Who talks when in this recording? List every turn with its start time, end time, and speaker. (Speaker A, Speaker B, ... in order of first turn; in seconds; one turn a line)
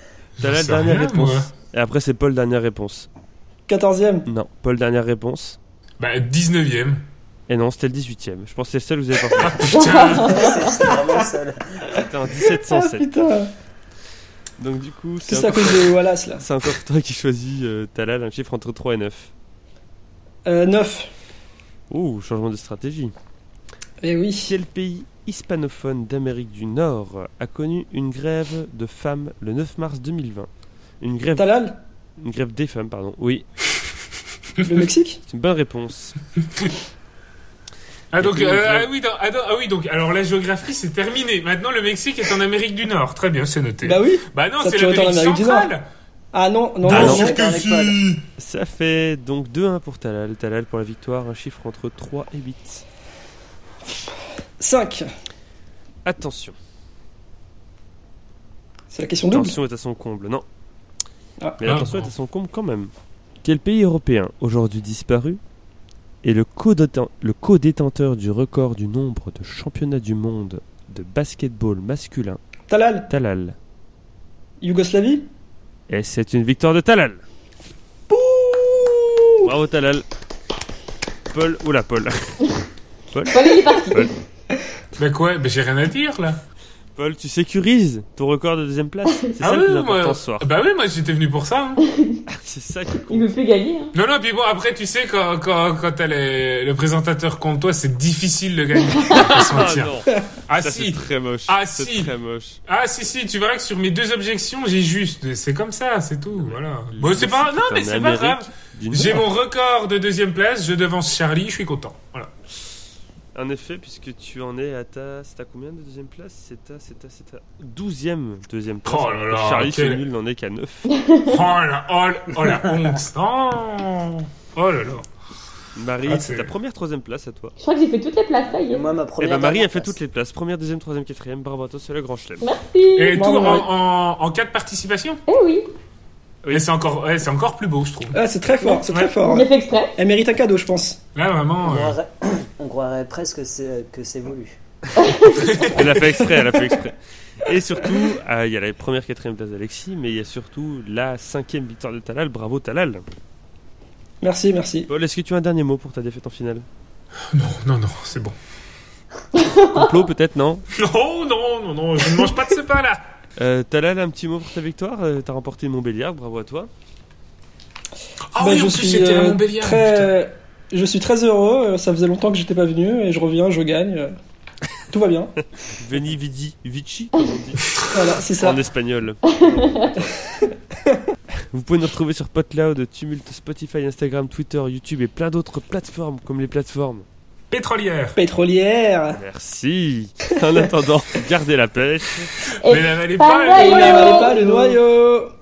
Speaker A: 0.4-3.1
Speaker B: 0.4-1.5
Speaker C: 3.7-4.3
Speaker A: 4.3-5.6
Speaker B: 6.0-7.0
Speaker A: 7.5-10.0
Speaker B: 9.4-10.5
Speaker D: 9.7-10.5
Speaker E: 10.2-12.0
Speaker C: 10.3-11.2
Speaker A: 11.9-13.1
Speaker C: 12.4-13.5
Speaker A: 14.6-19.3
Speaker C: 15.3-16.4
Speaker C: 20.4-21.1
Speaker A: 21.9-23.1
Speaker C: 24.0-24.5
Speaker A: 24.4-30.5
Speaker A: 31.0-33.7
Speaker C: 31.4-31.8
Speaker C: 34.6-35.2
Speaker A: 35.3-36.2
Speaker B: 38.1-45.9
Speaker A: 38.2-38.9
Speaker C: 43.8-45.7
Speaker C: 46.3-47.4
Speaker B: 46.8-48.2
Speaker A: 46.9-47.3
Speaker E: 46.9-48.0
Speaker A: 48.4-52.8
Speaker C: 54.6-55.1
Speaker A: 56.0-56.5
Speaker C: 58.9-59.6
Speaker A: 59.3-60.4
Speaker C: 61.4-61.7
Speaker A: 61.6-62.9
Speaker B: 61.6-62.1
Speaker A: 63.4-65.4
Speaker A: 66.2-72.4
Speaker C: 72.7-73.1
Speaker A: 73.1-73.5
Speaker C: 74.6-75.3
Speaker A: 75.9-77.2
Speaker C: 78.1-79.5
Speaker A: 79.4-80.0
Speaker A: 81.3-82.5
Speaker A: 83.1-84.1
Speaker D: 83.3-84.1
Speaker B: 85.0-86.4
Speaker A: 87.0-90.5
Speaker B: 89.4-91.8
Speaker D: 91.8-92.2
Speaker A: 92.3-93.3
Speaker D: 93.1-93.9
Speaker B: 93.9-99.9
Speaker A: 99.1-102.6
Speaker B: 100.5-102.1
Speaker B: 102.7-112.3
Speaker A: 106.3-109.3
Speaker A: 113.3-120.9
Speaker B: 118.8-120.0
Speaker D: 120.9-121.3
Speaker B: 121.2-125.0
Speaker A: 125.8-127.5
Speaker B: 126.0-126.5
Speaker D: 127.6-128.8
Speaker E: 128.5-129.9
Speaker A: 129.2-132.5
Speaker D: 132.4-133.6
Speaker B: 132.9-135.2
Speaker C: 133.1-133.7
Speaker D: 135.3-135.7
Speaker B: 136.4-138.2
Speaker C: 138.1-141.0
Speaker D: 138.6-140.0
Speaker B: 141.1-142.0
Speaker E: 141.6-144.5
Speaker D: 144.9-145.4
Speaker B: 145.3-146.0
Speaker A: 145.7-153.0
Speaker C: 154.2-154.9
Speaker A: 154.9-156.7
Speaker B: 157.3-158.3
Speaker D: 159.3-159.9
Speaker A: 159.5-160.7
Speaker B: 160.7-163.0
Speaker A: 163.4-166.7
Speaker B: 168.3-170.1
Speaker C: 168.4-174.1
Speaker C: 174.9-175.3
Speaker A: 175.8-180.1
Speaker C: 177.9-178.6
Speaker D: 179.4-179.8
Speaker C: 180.0-181.0
Speaker A: 181.5-187.1
Speaker B: 187.5-188.2
Speaker C: 188.2-189.2
Speaker A: 189.1-192.4
Speaker D: 192.6-194.8
Speaker B: 192.6-194.3
Speaker C: 193.5-195.3